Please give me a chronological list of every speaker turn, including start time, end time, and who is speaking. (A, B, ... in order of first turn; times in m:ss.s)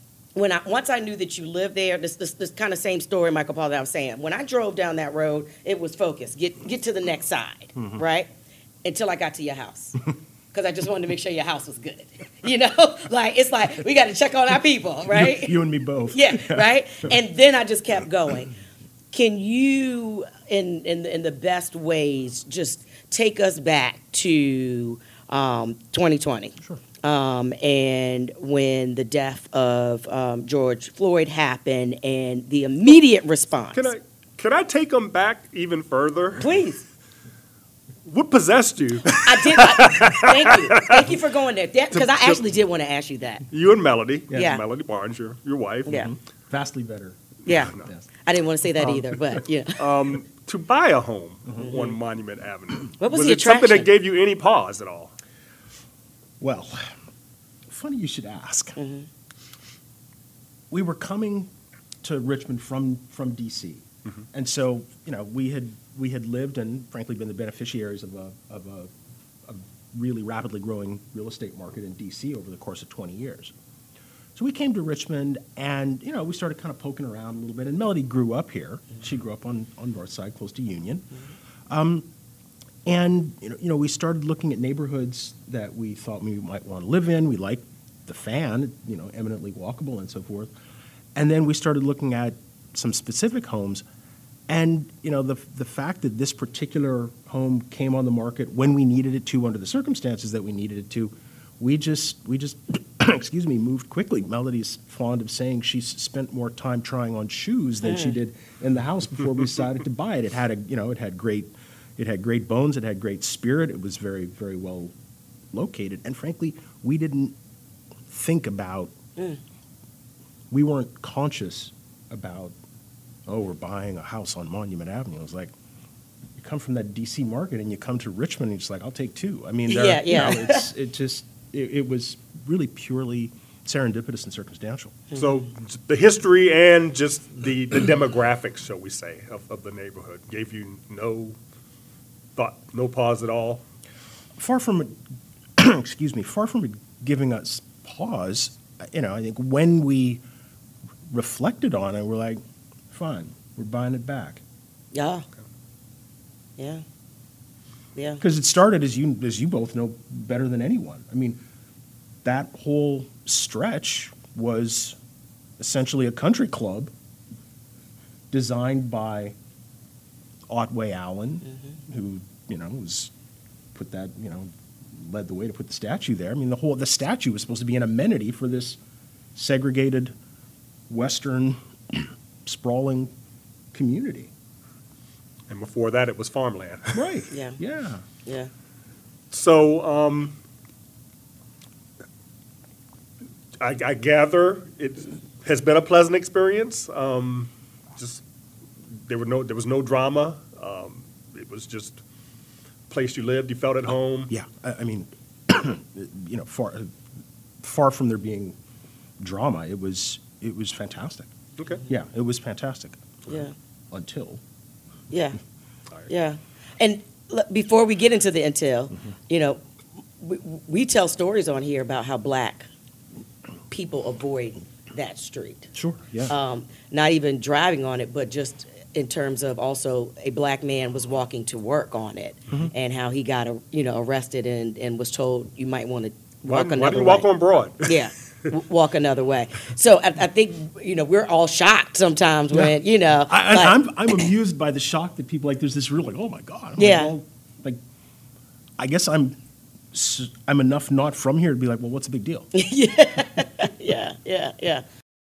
0:00.3-0:08.3 A
0:07.7-0:08.0 B
0:08.8-0:15.6 A
0:15.1-0:17.2 B
0:16.1-0:18.5 A
0:19.1-0:33.9 A
0:33.7-0:36.4 C
0:36.4-0:36.8 A
0:38.0-0:41.2 C
0:39.1-0:43.4 A
0:41.9-0:42.5 C
0:43.5-0:45.9 C
0:44.3-0:44.6 A
0:45.8-0:46.1 A
0:45.8-0:48.1 B
0:47.4-0:50.0 A
0:47.5-0:47.8 C
0:49.8-0:55.1 C
0:51.4-0:51.8 B
0:51.6-0:52.0 A
0:53.0-0:53.9 A
0:56.4-0:56.9 B
0:57.7-0:58.8 B
0:58.8-0:59.1 A
1:00.7-1:01.5 B
1:02.0-1:08.9 B
1:09.4-1:13.5 B
1:14.3-1:21.1 B
1:21.7-1:22.1 B
1:22.8-1:30.5 B
1:31.1-1:33.8 B
1:34.5-1:54.9 B
1:47.8-1:48.2 A
1:55.5-1:57.4 B
1:58.1-1:59.0 B
2:00.5-2:02.6 B
2:03.3-2:05.5 B
2:06.4-2:15.0 B
2:09.7-2:10.7 A
2:15.2-2:21.4 C
2:22.3-2:23.6 C
2:24.4-2:25.0 B
2:25.6-2:30.2 B
2:31.1-2:32.4 B
2:32.9-2:34.4 B
2:34.9-2:35.3 A
2:36.6-2:36.8 A
2:37.9-2:38.2 A
2:38.2-2:41.4 B
2:42.2-2:45.0 B
2:45.6-2:46.9 B
2:48.3-2:49.3 B
2:50.5-2:53.1 B
2:53.7-2:58.8 B
2:59.3-3:00.1 B
3:00.9-3:03.1 B
3:03.7-3:04.3 B
3:05.5-3:07.1 C
3:06.9-3:08.1 B
3:07.3-3:07.6 A
3:08.2-3:08.5 A
3:09.3-3:10.4 C
3:13.6-3:18.2 C
3:18.9-3:22.0 C
3:22.9-3:24.3 C
3:24.3-3:26.9 B
3:27.6-3:28.6 B
3:29.2-3:31.3 B
3:31.6-3:31.9 C
3:31.9-3:33.2 B
3:33.9-3:34.4 B
3:35.1-3:35.4 A
3:36.1-3:39.6 A
3:40.2-3:42.7 A
3:43.7-3:45.7 A
3:45.7-3:46.4 B
3:46.3-3:57.3 A
3:56.4-3:58.5 C
3:57.8-4:04.3 A
4:02.5-4:02.8 B
4:03.3-4:07.8 B
4:06.8-4:07.1 A
4:08.8-4:09.4 B
4:09.9-4:12.5 B
4:12.5-4:14.8 A